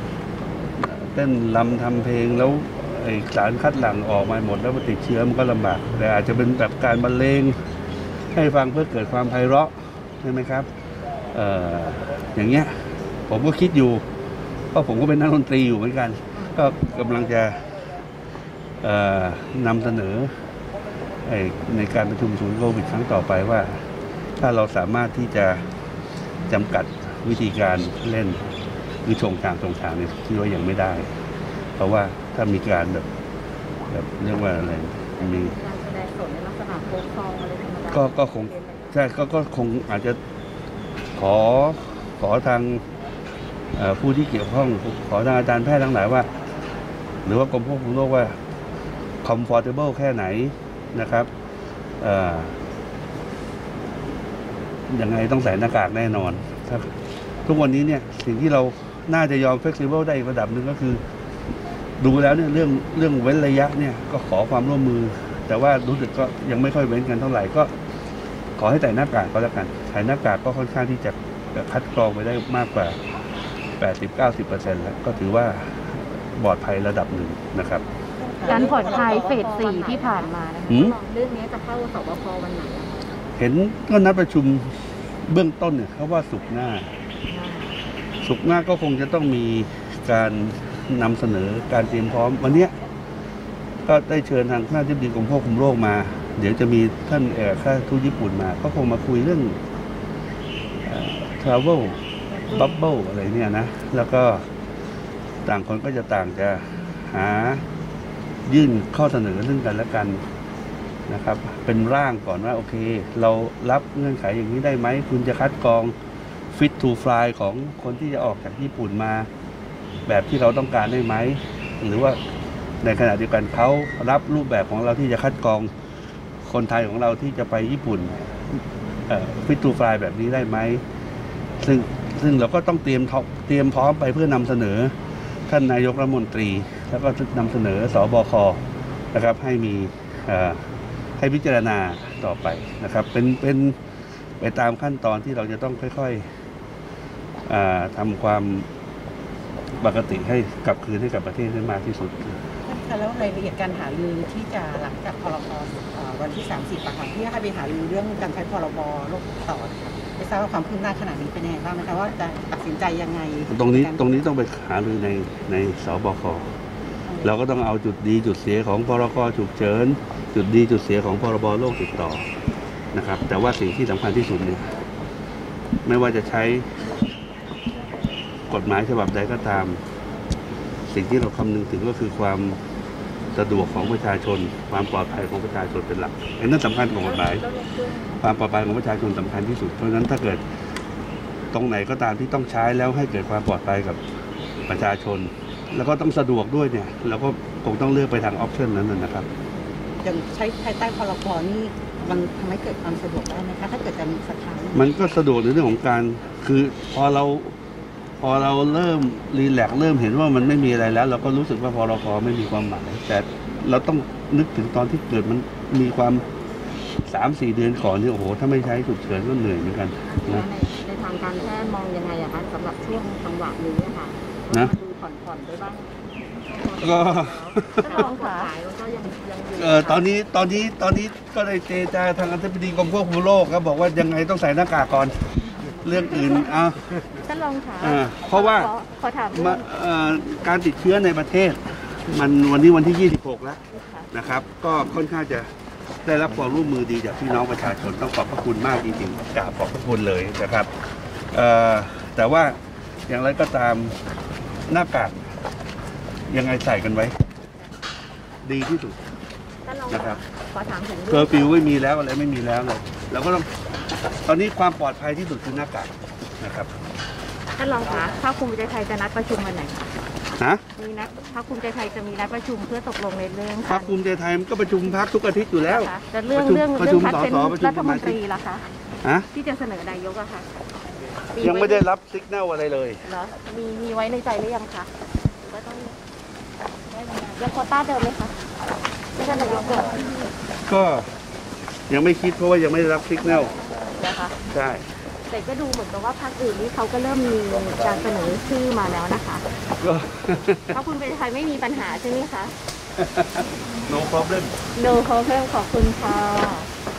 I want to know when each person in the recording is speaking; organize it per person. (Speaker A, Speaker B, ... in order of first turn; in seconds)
Speaker A: 0.8-7.6, 8.3-10.7, 11.3-14.1, 14.7-17.7, 18.8-20.3, 21.3-23.9, 24.4-25.7, 26.5-28.5, 29.1-31.2, 31.8-33.1, 33.9-35.6, 37.9-40.2, 41.2-42.9, 43.7-46.3, 47.2-48.4, 49.2-51.3, 52.0-52.6, 54.9-56.9, 57.5-61.0, 62.0-67.7, 68.6-73.0, 73.8-77.8, 80.7-81.0, 83.4-86.9, 88.2-92.8, 93.9-99.6, 100.8-104.5, 105.5-107.6, 108.5-110.2, 111.1-116.0, 116.5-119.3, 120.1-122.2, 122.8-125.7, 126.4-130.8, 131.6-134.9, 135.5-138.6, 139.1-140.6, 141.2-143.8, 144.4-146.3, 147.5-148.7, 149.8-152.4, 163.5-166.5, 167.2-172.3, 172.9-174.8, 175.8-176.8, 178.5-179.8, 180.9-182.6, 183.3-187.4, 188.2-190.4, 191.5-194.0, 194.6-199.3, 204.7-207.6, 208.2-216.2, 217.1-220.5, 226.8-228.0, 229.6-236.8, 237.8-238.7, 239.3-245.5, 246.0-250.7, 251.3-254.0, 254.7-255.2, 256.3-257.2, 258.4-259.0, 259.9-260.2, 261.1-263.5, 264.2-266.7, 270.4-270.6, 273.6-278.2, 279.0-279.3, 281.4-283.1, 290.6-291.1, 291.9-293.5, 294.5-294.9, 299.8-300.8, 303.0-304.6
Speaker B: 35.2-38.7, 78.4-83.0, 187.2-188.0, 220.1-230.2, 287.0-287.2, 289.4-289.9
Speaker C: 78.2-79.5, 152.7-164.2, 200.0-204.8
Speaker D: 78.5-80.3, 87.3-87.8, 227.8-228.5, 237.2-239.7, 243.7-244.1, 259.7-261.6, 267.6-269.9, 270.8-274.0, 275.6-278.6, 279.3-280.5, 281.4-281.9, 283.1-284.9, 285.4-286.0, 287.3-288.4, 289.2-290.0, 293.9-294.4, 295.3-299.4, 300.7-302.6, 304.8-306.7